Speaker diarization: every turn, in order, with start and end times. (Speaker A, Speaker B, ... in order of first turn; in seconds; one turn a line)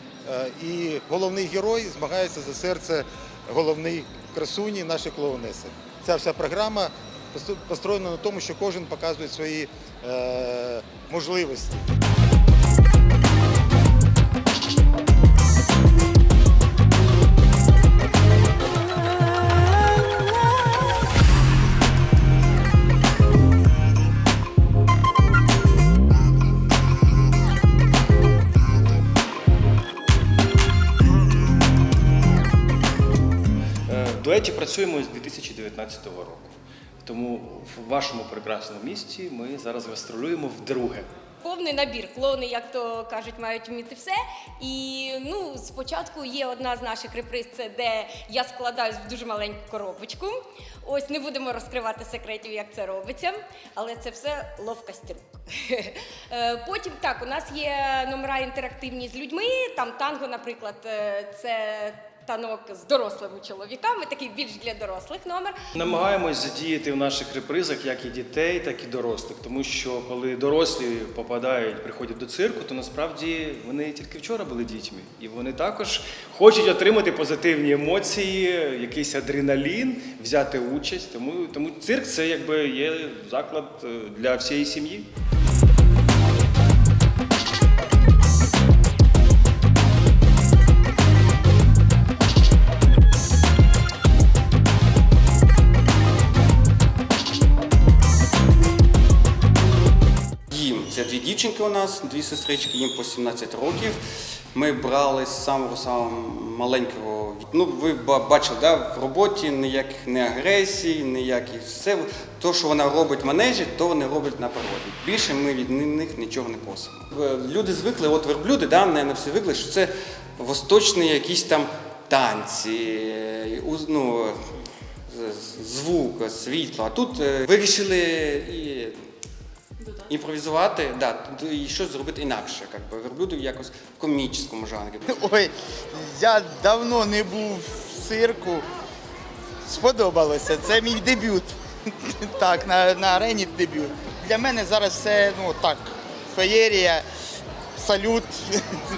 Speaker A: 0.2-11.8
Speaker B: 33.9-41.1
Speaker C: 41.4-65.6
Speaker B: 65.7-85.1
Speaker D: 100.5-104.0
Speaker D: 104.5-124.4
Speaker D: 125.1-128.9
Speaker D: 130.1-135.0
Speaker E: 135.1-138.7
Speaker E: 139.6-147.1
Speaker E: 147.8-148.8